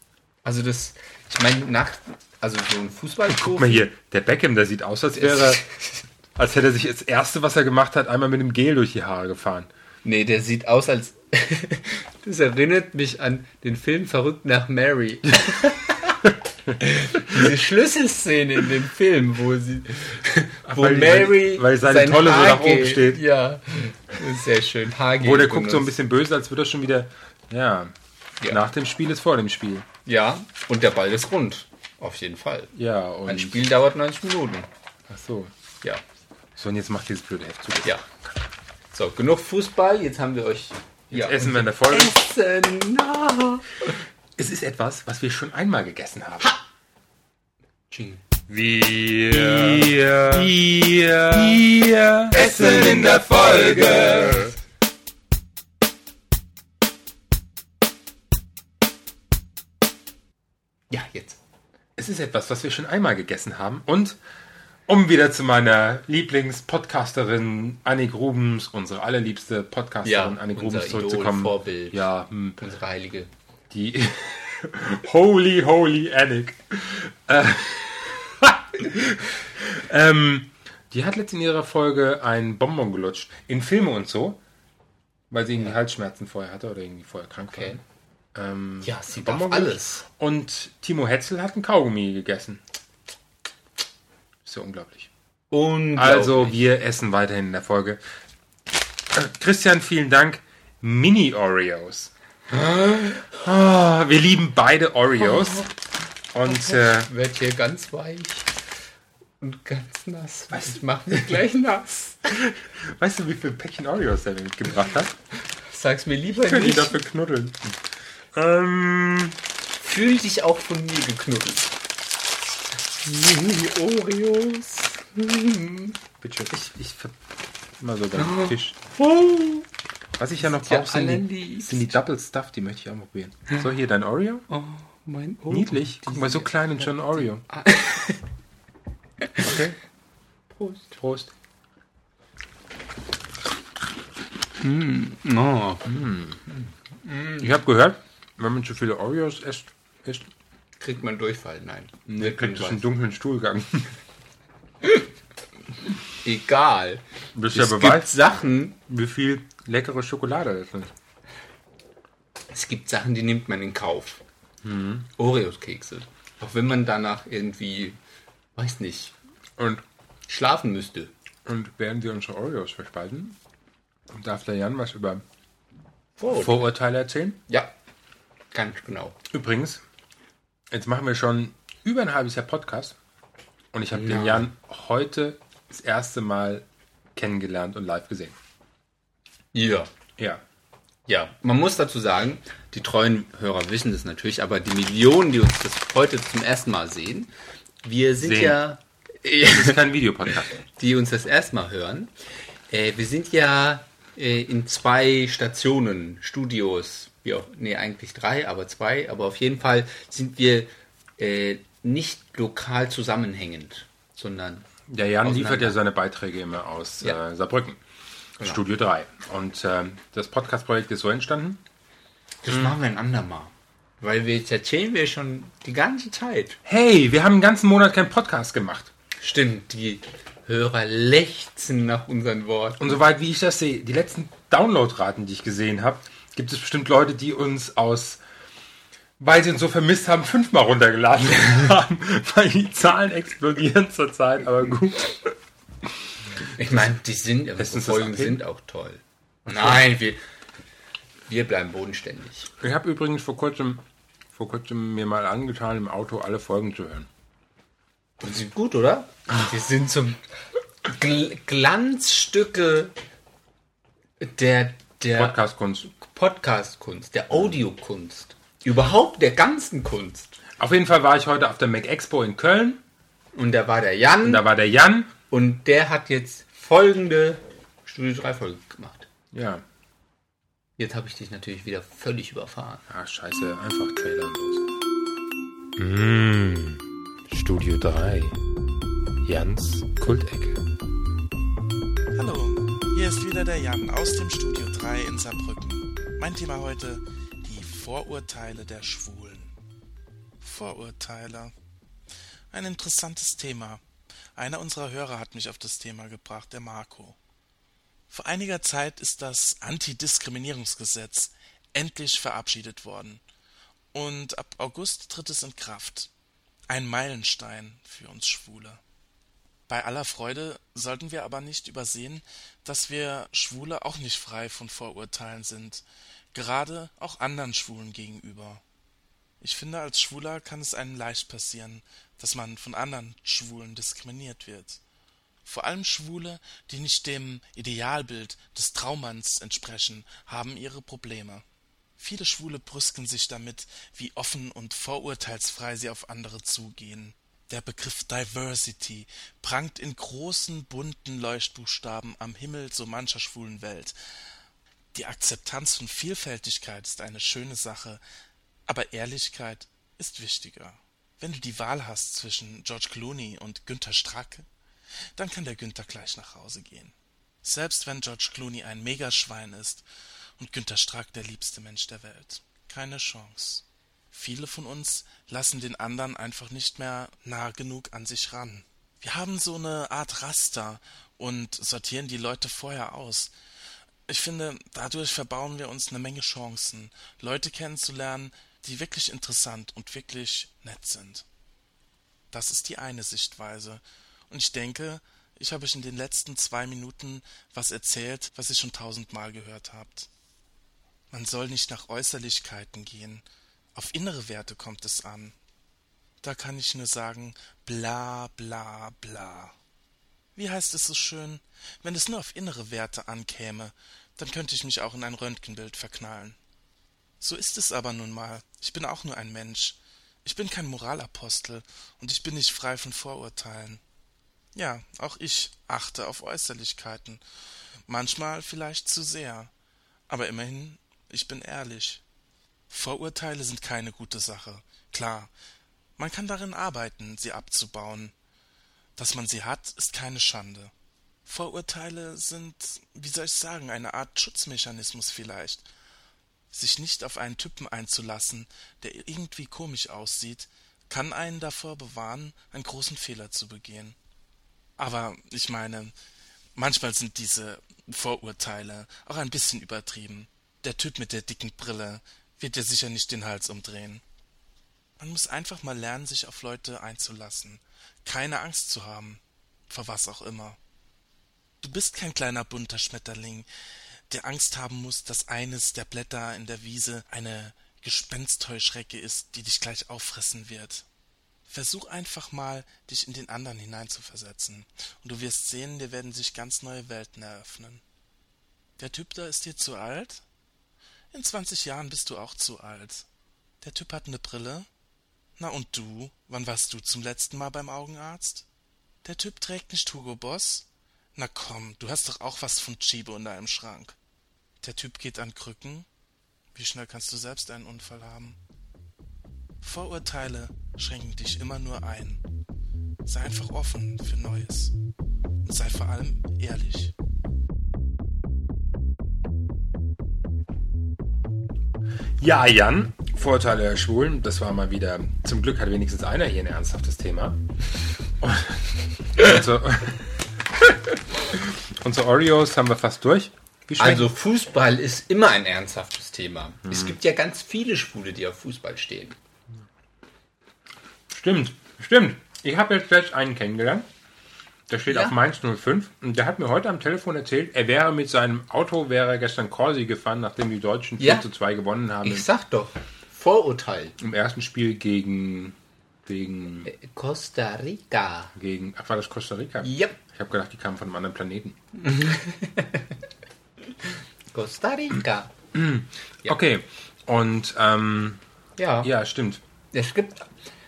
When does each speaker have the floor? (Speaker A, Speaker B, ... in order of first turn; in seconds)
Speaker A: 0.4-3.9, 5.2-5.6, 10.0-16.2, 16.8-25.9, 30.1-32.7, 33.2-34.7, 38.9-43.9, 47.9-48.2, 49.3-50.5, 52.3-54.5, 60.9-61.4, 70.0-72.0, 72.6-73.3, 87.5-87.8, 88.8-90.0, 95.5-96.6, 102.5-103.2, 105.2-105.7, 106.4-108.5, 109.4-112.3, 115.7-117.0, 119.8-121.7, 123.0-126.0, 128.2-129.7, 130.4-132.0, 134.5-138.2, 139.2-139.5, 140.5-141.0, 144.6-145.8, 147.0-147.5, 150.8-152.8, 156.2-158.8, 162.5-164.2, 165.2-168.0, 168.6-169.1, 170.3-171.1, 176.2-176.7, 178.5-179.2, 183.9-184.4, 189.5-189.9, 191.1-197.3, 197.8-199.8, 200.6-202.1, 202.7-214.7, 215.2-215.8, 222.4-226.6, 229.2-233.0, 246.5-250.2, 251.3-252.5, 258.2-260.2, 260.9-262.9, 264.2-265.4, 265.9-270.4, 273.3-274.4, 275.3-279.1, 280.8-282.8, 533.8-539.2, 544.9-545.2, 551.0-551.3, 552.0-553.9, 556.6-558.3, 559.6-560.0, 561.8-562.9, 564.3-565.3, 568.6-568.9, 569.7-570.3
Speaker B: 3.3-5.6, 6.3-9.7, 20.6-23.2, 25.2-27.9, 28.5-29.9, 32.7-33.7, 35.1-35.5, 36.5-38.4, 41.1-42.2, 44.4-46.6, 48.5-54.5, 62.0-64.2, 64.9-72.6, 73.7-84.4, 85.3-87.8, 88.3-92.6, 94.4-95.1, 96.0-98.0, 99.1-102.1, 103.1-105.7, 106.3-107.1, 110.5-111.3, 112.3-115.2, 116.4-117.6, 118.3-119.3, 126.2-127.1, 127.8-128.8, 130.2-134.4, 135.5-137.4, 139.4-139.8, 141.0-141.3, 145.8-146.4, 147.4-150.3, 152.2-153.9, 157.3-158.3, 158.8-160.9, 164.6-165.1, 169.6-169.8, 171.4-173.4, 174.1-175.2, 176.3-177.4, 179.3-179.8, 180.7-183.0, 183.7-188.3, 198.2-198.6, 199.4-200.6, 214.9-217.8, 218.4-221.6, 222.5-222.8, 226.6-228.9, 232.8-238.2, 239.2-245.3, 247.6-248.4, 249.5-249.8, 252.6-257.1, 265.1-265.9, 270.6-272.8, 274.2-275.1, 279.3-279.6, 282.9-284.6, 285.8-288.4, 289.2-290.6, 522.2-527.4, 528.2-530.1, 531.3-534.1, 536.7-536.9, 541.1-543.9, 544.7-552.2, 554.0-556.7, 558.3-561.6, 565.5-568.2, 568.8-569.4
Speaker C: 292.1-299.5, 300.4-301.5, 302.5-303.8, 304.4-307.2, 308.1-313.2, 313.9-316.1, 316.7-318.8, 319.7-328.6, 329.4-334.8, 335.4-341.4, 342.0-353.9, 354.9-358.0, 358.7-364.5, 365.1-369.8, 370.4-383.3, 384.1-391.2, 392.3-400.1, 401.1-405.3, 406.2-409.5, 410.4-416.4, 417.2-423.8, 424.5-427.2, 427.9-429.5, 430.1-432.0, 432.7-435.3, 436.0-438.1, 438.9-440.7, 441.2-445.6, 446.5-453.9, 454.8-455.9, 456.5-464.0, 465.0-470.6, 471.6-473.5, 474.1-480.9, 481.5-487.8, 488.8-490.2, 491.1-493.1, 493.6-494.7, 495.4-498.4, 499.0-503.9, 504.6-505.9, 506.5-508.4, 509.6-512.2, 513.0-514.7, 515.4-516.9